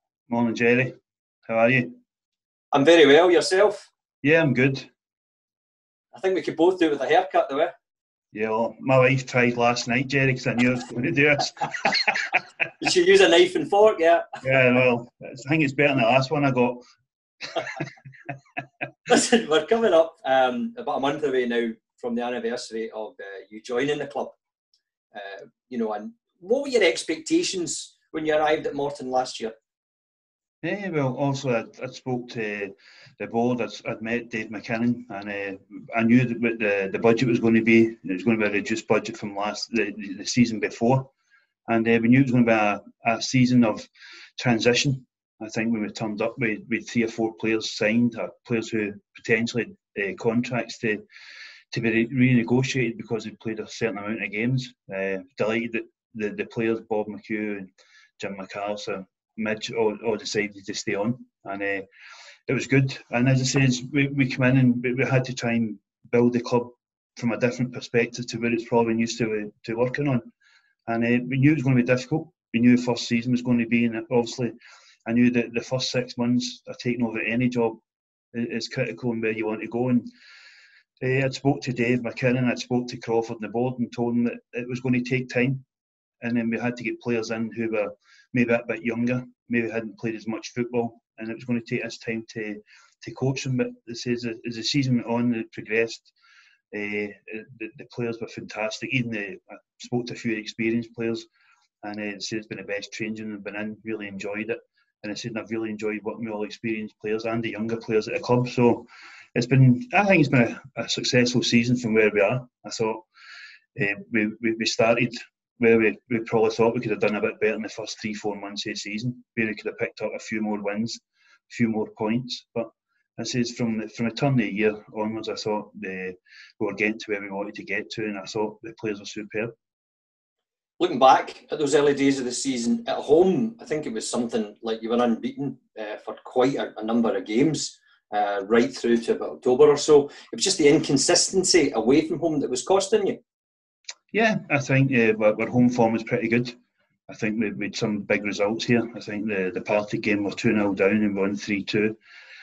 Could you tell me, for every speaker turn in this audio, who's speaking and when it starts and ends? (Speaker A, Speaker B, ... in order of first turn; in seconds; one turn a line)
Speaker A: 0.3-0.9
Speaker A: 1.5-1.9
Speaker B: 2.7-3.9
Speaker A: 4.2-4.9
Speaker B: 6.1-7.7
Speaker A: 8.3-12.3
Speaker B: 12.8-14.4
Speaker A: 14.4-16.8
Speaker B: 19.1-24.3
Speaker B: 25.1-29.5
Speaker A: 30.6-41.1
Speaker A: 41.7-51.0
Speaker A: 51.7-61.9
Speaker A: 62.5-70.2
Speaker A: 70.9-74.5
Speaker A: 75.0-77.8
Speaker A: 78.3-80.1
Speaker A: 81.0-85.6
Speaker A: 86.2-96.1
Speaker A: 96.7-101.3
Speaker A: 101.8-113.0
Speaker A: 113.7-129.5
Speaker B: 130.8-143.2
Speaker A: 144.1-146.5
Speaker A: 147.1-151.9